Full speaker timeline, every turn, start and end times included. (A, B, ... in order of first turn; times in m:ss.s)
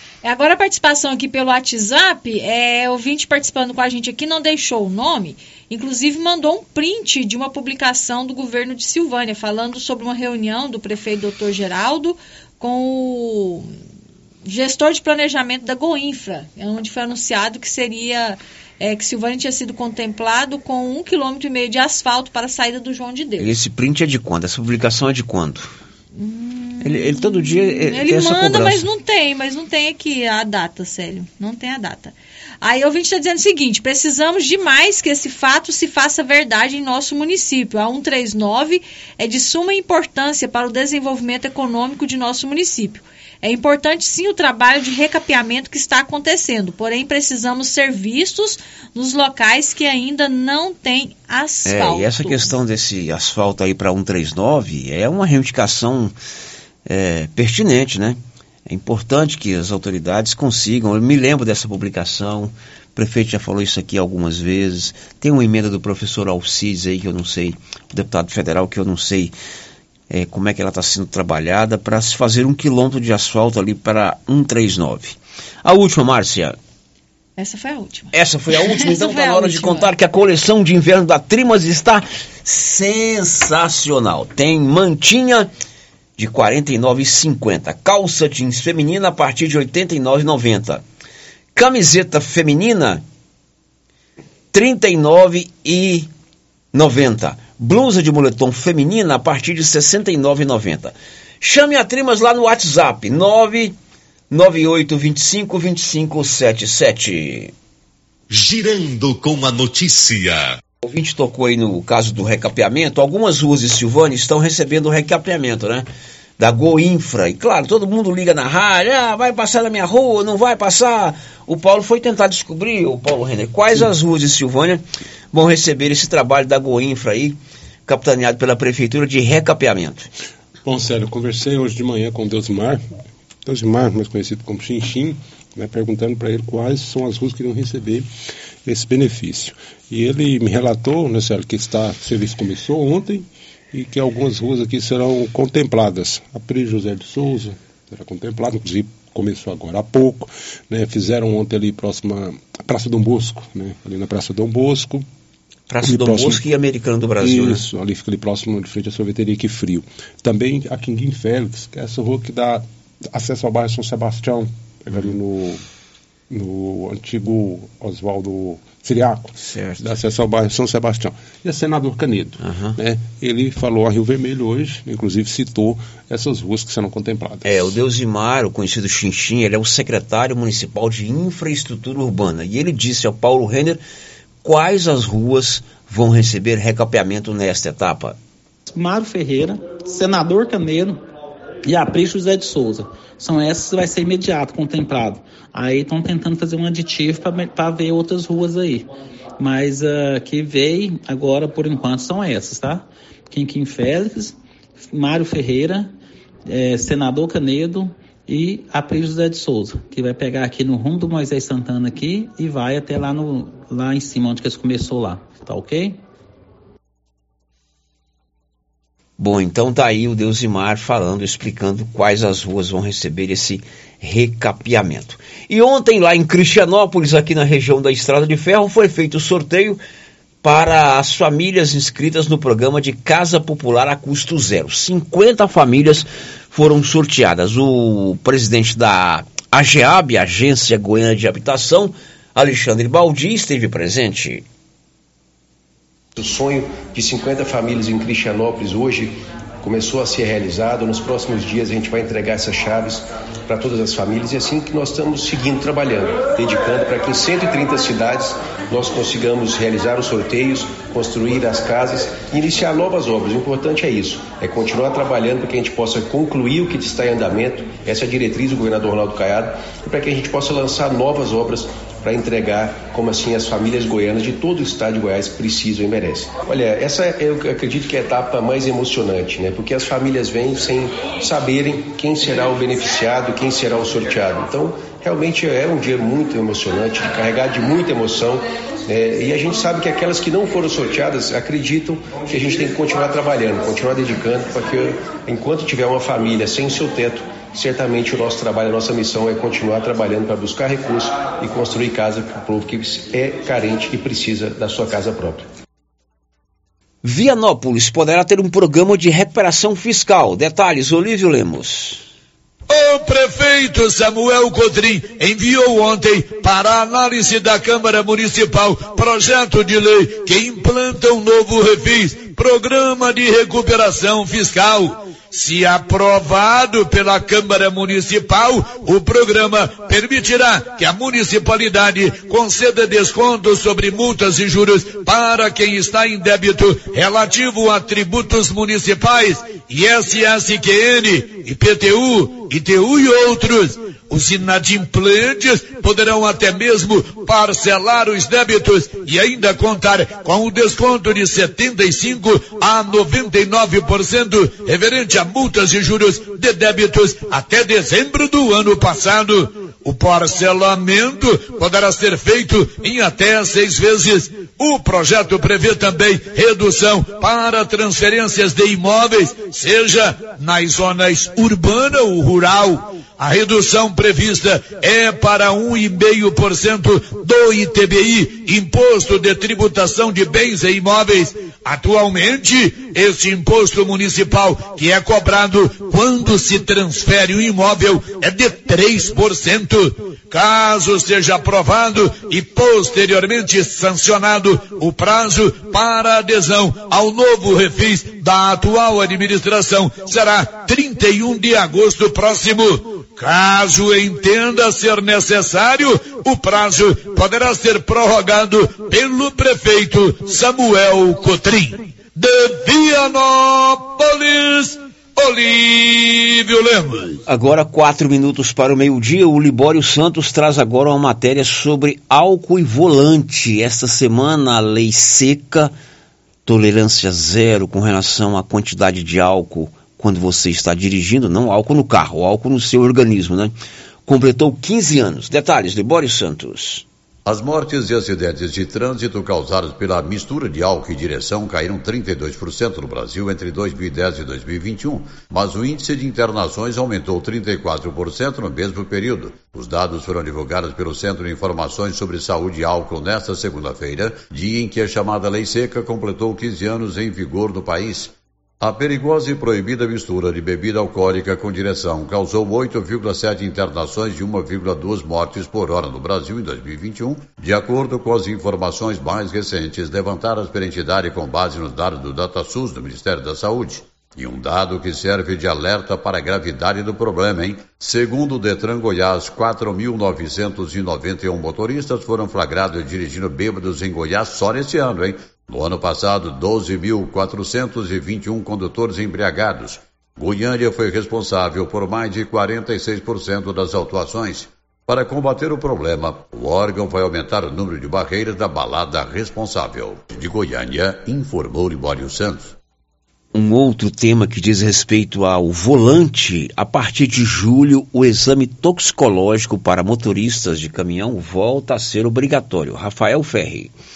0:00.2-0:13.7 A
0:14.5-0:23.5 A
0:23.4-0:25.7 B
0:26.2-0:52.5 A
0:26.8-0:28.8 B
0:51.7-0:56.2 B
0:56.9-1:09.3 B
1:10.1-1:16.6 B
1:17.4-1:19.9 A
1:18.1-1:25.5 B
1:26.2-1:30.8 B
1:31.6-1:33.0 B
1:34.5-1:36.1 B
1:36.7-1:43.8 B
1:44.3-1:47.5 B
1:48.3-1:50.6 C
1:50.8-1:55.9 B
1:56.4-2:10.1 B
2:10.6-2:12.8 D
2:13.5-2:18.1 D
2:18.7-2:35.1 D
2:35.7-2:37.6 B
2:35.8-2:36.4 D
2:37.2-2:45.6 D
2:46.3-2:57.7 D
2:49.4-2:49.8 B
2:52.4-2:52.8 B
2:57.4-3:03.8 B
3:04.4-3:08.2 B
3:08.7-3:11.0 E
3:11.6-3:24.4 E
3:24.9-3:25.9 E
3:26.5-3:36.0 E
3:39.2-3:49.8 B
3:50.4-4:04.4 B
4:06.2-5:05.5 F
5:07.0-5:12.0 B
5:12.7-6:57.2 G
6:57.3-7:05.7 B
7:06.4-7:13.6 B
7:14.1-7:16.8 B
7:17.2-8:22.6 H
8:23.3-8:33.7 B